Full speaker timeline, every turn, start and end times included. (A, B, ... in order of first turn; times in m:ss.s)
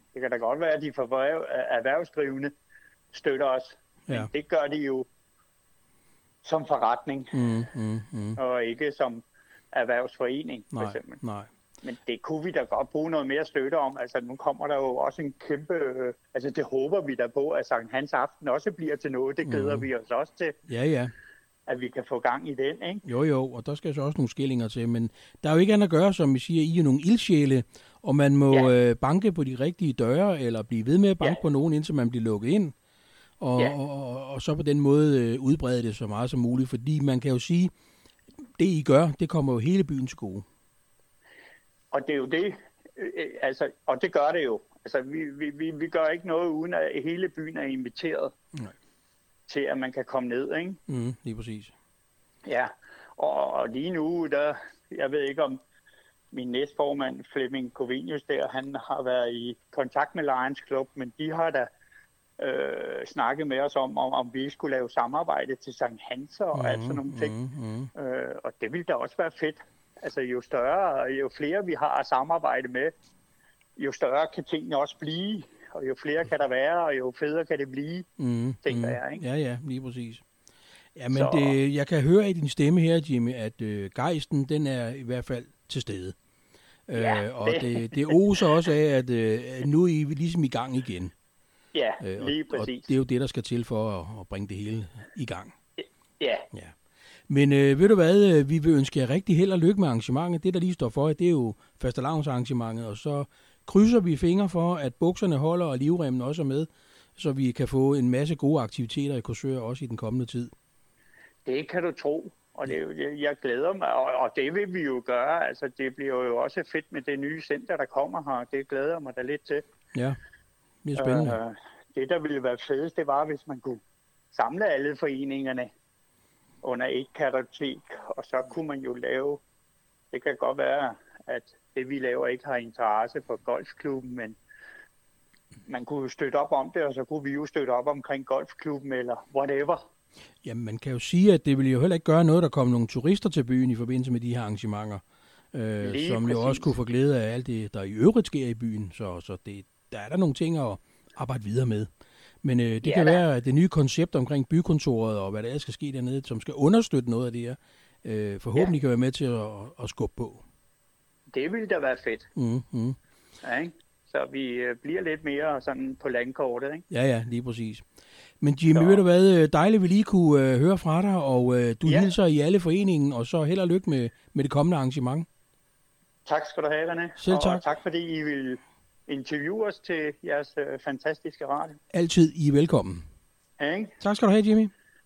0:00.1-0:02.5 A
0:03.1-0:05.1 A
0:06.4-0:07.4 A
0:07.3-0:08.4 B
0:08.4-0:11.2 A
0:10.7-0:11.5 B
0:11.8-0:20.6 A
0:19.4-0:19.9 B
0:20.7-0:21.1 B
0:21.7-0:23.0 A
0:23.0-0:32.7 B
0:33.4-0:37.7 B
0:38.6-0:40.4 B
0:41.9-0:48.3 A
0:49.5-0:50.8 A
0:50.9-0:51.7 B
0:52.5-0:55.6 A
0:56.3-1:01.7 A
1:02.4-1:07.4 A
1:06.6-1:07.9 B
1:08.0-1:12.9 A
1:13.8-1:18.1 A
1:18.2-1:20.2 B
1:18.6-1:19.2 A
1:21.0-1:26.2 B
1:21.1-1:21.6 A
1:26.9-1:31.1 B
1:27.0-1:28.2 A
1:31.7-1:32.9 A
1:32.0-1:35.5 B
1:35.8-1:36.5 A
1:37.3-1:50.5 B
1:51.5-1:59.6 A
2:00.8-2:01.4 B
2:01.0-2:03.8 A
2:04.3-2:05.7 A
2:06.6-2:09.4 A
2:10.1-2:14.4 A
2:15.7-2:19.8 A
2:20.4-2:25.0 B
2:25.5-2:31.9 B
2:25.8-2:26.7 A
2:32.4-2:40.4 B
2:32.8-2:33.2 A
2:41.3-2:42.3 A
2:42.4-2:43.0 B
2:43.4-2:46.8 A
2:46.9-2:47.8 B
2:48.4-2:55.3 B
2:48.7-2:49.0 A
2:51.9-2:52.1 A
2:56.3-3:01.8 A
2:57.2-2:57.7 B
3:01.9-3:03.0 B
3:03.6-3:04.0 A
3:04.0-3:04.7 B